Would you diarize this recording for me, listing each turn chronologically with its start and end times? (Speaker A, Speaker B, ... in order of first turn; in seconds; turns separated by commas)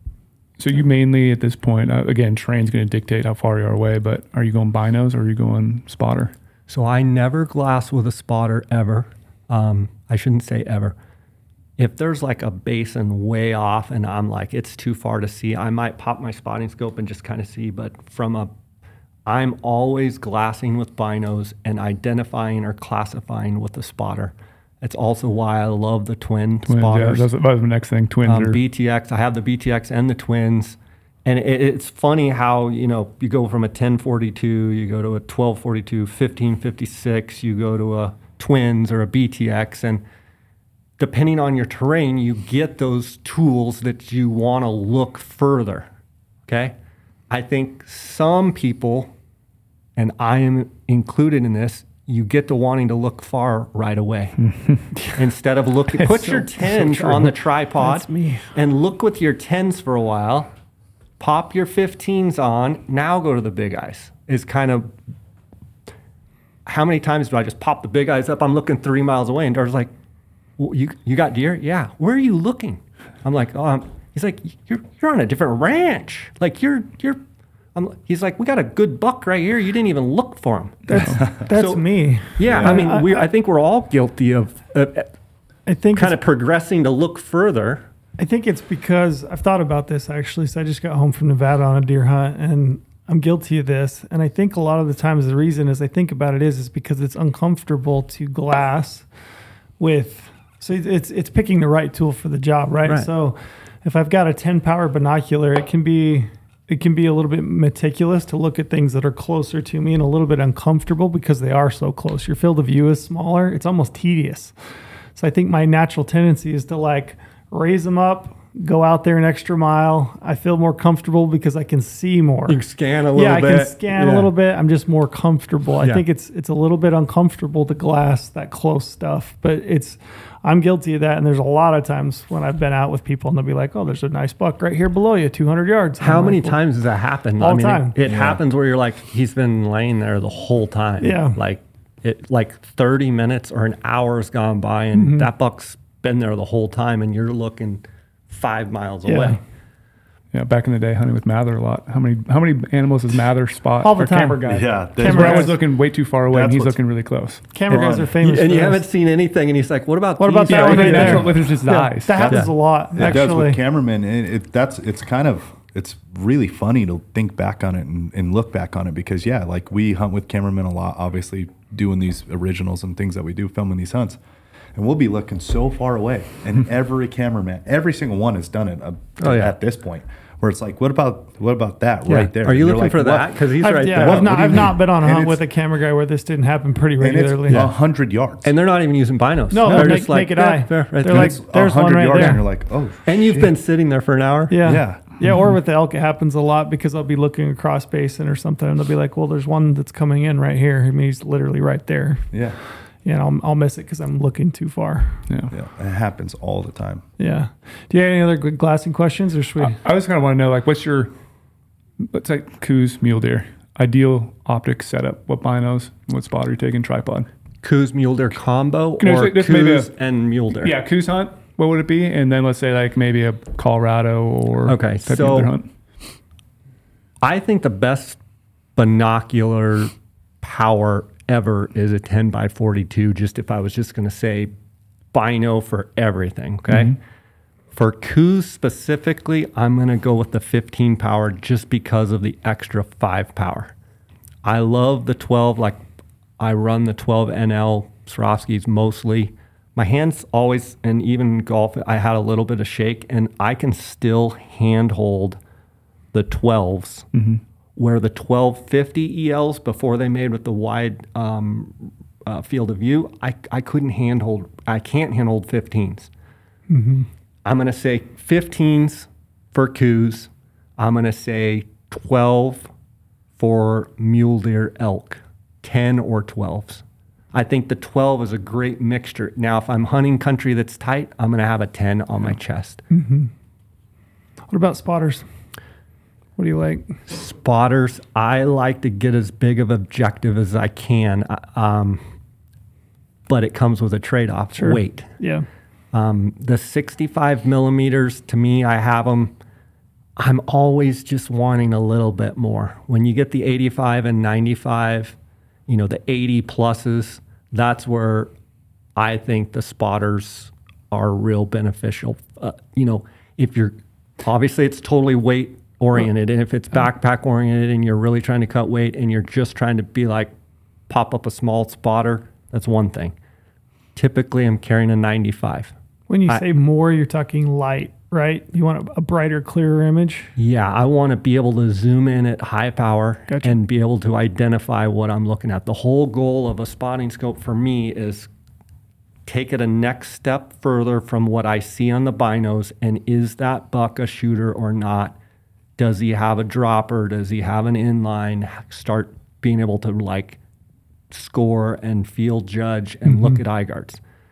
Speaker A: 0.6-6.3, Speaker B: 6.7-10.9, Speaker B: 11.8-18.5, Speaker B: 19.3-27.3, Speaker A: 26.7-28.6, Speaker B: 28.3-40.0, Speaker B: 41.0-45.9, Speaker B: 46.5-46.8, Speaker B: 47.3-49.1, Speaker B: 50.0-54.4, Speaker B: 55.1-60.5, Speaker C: 56.0-58.5, Speaker B: 61.2-65.0, Speaker B: 66.7-69.9, Speaker B: 70.6-77.2, Speaker B: 77.8-85.1, Speaker C: 80.9-83.3, Speaker A: 80.9-81.2, Speaker D: 82.5-82.8, Speaker C: 85.7-86.2, Speaker B: 85.9-87.9, Speaker C: 88.2-99.1, Speaker C: 99.8-114.5, Speaker B: 102.8-103.1, Speaker C: 115.2-122.6, Speaker B: 122.5-124.3, Speaker C: 123.2-136.6, Speaker B: 125.8-126.0, Speaker B: 136.0-149.4, Speaker C: 137.4-138.0, Speaker D: 138.1-138.3, Speaker C: 141.0-141.4, Speaker C: 145.0-145.3, Speaker C: 149.1-149.4, Speaker A: 150.3-157.4, Speaker C: 153.8-155.6, Speaker D: 154.5-155.6, Speaker D: 156.3-156.8, Speaker C: 157.5-158.8, Speaker D: 157.7-158.1, Speaker B: 158.2-161.3, Speaker C: 160.2-163.6, Speaker A: 160.5-162.4, Speaker D: 162.1-174.2, Speaker D: 174.8-185.4, Speaker B: 179.2-179.6, Speaker B: 182.1-184.7, Speaker C: 183.6-187.7, Speaker D: 187.0-188.5, Speaker B: 188.4-191.4, Speaker C: 189.5-192.4, Speaker D: 191.1-193.5, Speaker B: 192.1-192.4, Speaker B: 193.1-194.6, Speaker C: 194.5-202.4, Speaker D: 194.6-195.0, Speaker A: 195.2-195.6, Speaker D: 202.3-202.6, Speaker C: 203.0-205.2, Speaker D: 205.5-207.0, Speaker C: 207.2-209.8, Speaker A: 209.6-211.1, Speaker A: 212.0-217.3, Speaker B: 217.6-220.7, Speaker A: 219.0-219.9, Speaker A: 220.6-225.7, Speaker B: 224.7-225.5, Speaker B: 227.2-228.2, Speaker B: 228.8-234.5, Speaker B: 235.1-237.0, Speaker B: 237.7-243.7, Speaker B: 244.4-245.8, Speaker B: 246.4-255.4, Speaker B: 256.1-257.1, Speaker A: 257.1-257.4, Speaker B: 257.8-266.1, Speaker C: 266.7-267.1, Speaker B: 267.4-272.7, Speaker B: 273.4-282.8, Speaker C: 282.9-283.3, Speaker C: 284.5-285.3, Speaker C: 286.4-287.0, Speaker B: 287.1-292.0, Speaker B: 293.3-295.2, Speaker C: 294.6-295.5, Speaker B: 295.9-299.3, Speaker B: 300.2-305.2, Speaker B: 305.7-308.3, Speaker B: 309.0-320.3, Speaker B: 320.9-323.1, Speaker B: 323.9-325.7, Speaker C: 326.1-330.3, Speaker B: 330.4-338.3, Speaker C: 333.3-333.5, Speaker B: 339.3-345.2, Speaker B: 345.8-350.4, Speaker B: 351.1-354.0